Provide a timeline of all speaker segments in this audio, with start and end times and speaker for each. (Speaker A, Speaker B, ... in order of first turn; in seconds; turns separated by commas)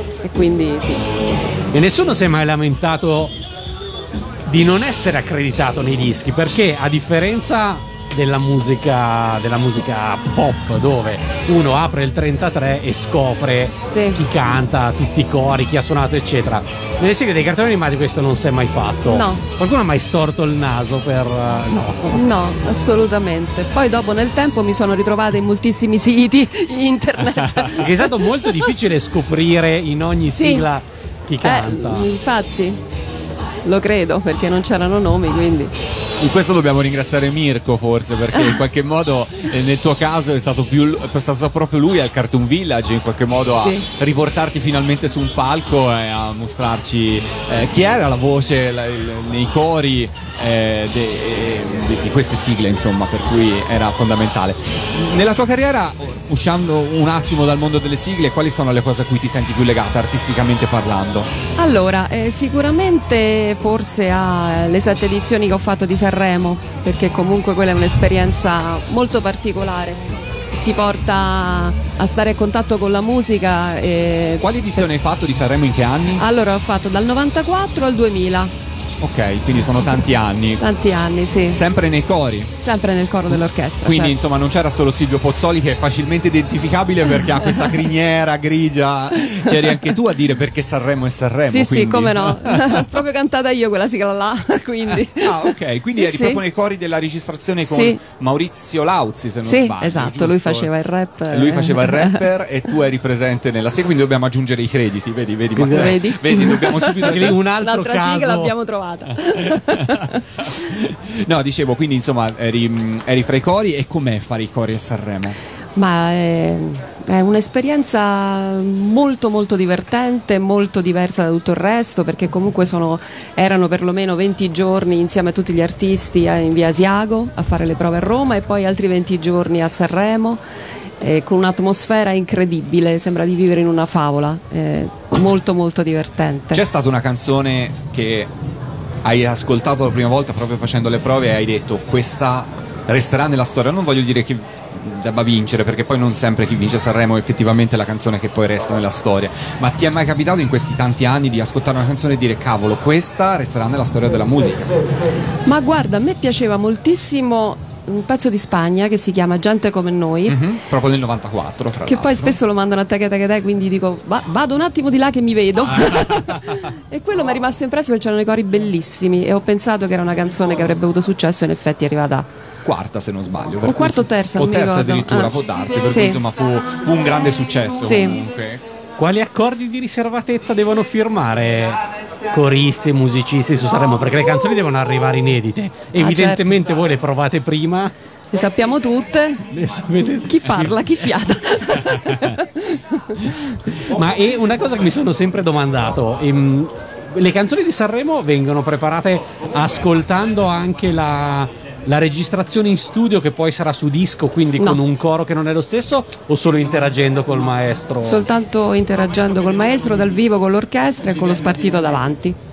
Speaker A: 0.2-1.1, Speaker B: 1.7-3.3, Speaker B: 4.5-22.2, Speaker A: 13.9-14.2, Speaker A: 19.1-19.4, Speaker A: 22.1-28.7, Speaker B: 27.7-32.1, Speaker A: 30.3-30.7, Speaker A: 31.4-32.8, Speaker A: 33.6-35.7, Speaker C: 36.2-61.3, Speaker A: 38.3-38.6, Speaker A: 43.6-43.9, Speaker A: 61.6-70.0, Speaker A: 70.6-74.8, Speaker C: 74.4-76.2, Speaker A: 76.2-78.5, Speaker C: 79.0-80.6, Speaker A: 80.6-81.6, Speaker C: 81.5-82.5, Speaker A: 82.6-84.2, Speaker C: 83.8-93.0, Speaker A: 87.3-87.8, Speaker A: 89.2-90.0, Speaker A: 91.5-96.4, Speaker C: 95.1-100.7, Speaker A: 97.6-98.0, Speaker A: 99.4-102.3, Speaker C: 101.3-107.4, Speaker B: 105.6-106.1, Speaker A: 105.7-110.5, Speaker B: 107.0-108.5, Speaker C: 110.4-115.4, Speaker A: 115.8-130.4, Speaker A: 131.0-136.6, Speaker C: 136.5-138.3, Speaker C: 139.0-154.7, Speaker A: 155.5-160.4, Speaker C: 160.3-162.4, Speaker A: 161.9-172.3, Speaker C: 165.7-166.4, Speaker C: 172.7-178.6, Speaker A: 173.6-176.3, Speaker A: 177.8-178.2, Speaker B: 179.0-181.8, Speaker B: 182.3-187.9, Speaker A: 186.0-186.6, Speaker A: 188.3-189.4, Speaker B: 189.5-191.3, Speaker A: 190.3-193.6, Speaker B: 193.8-208.3, Speaker A: 208.0-212.4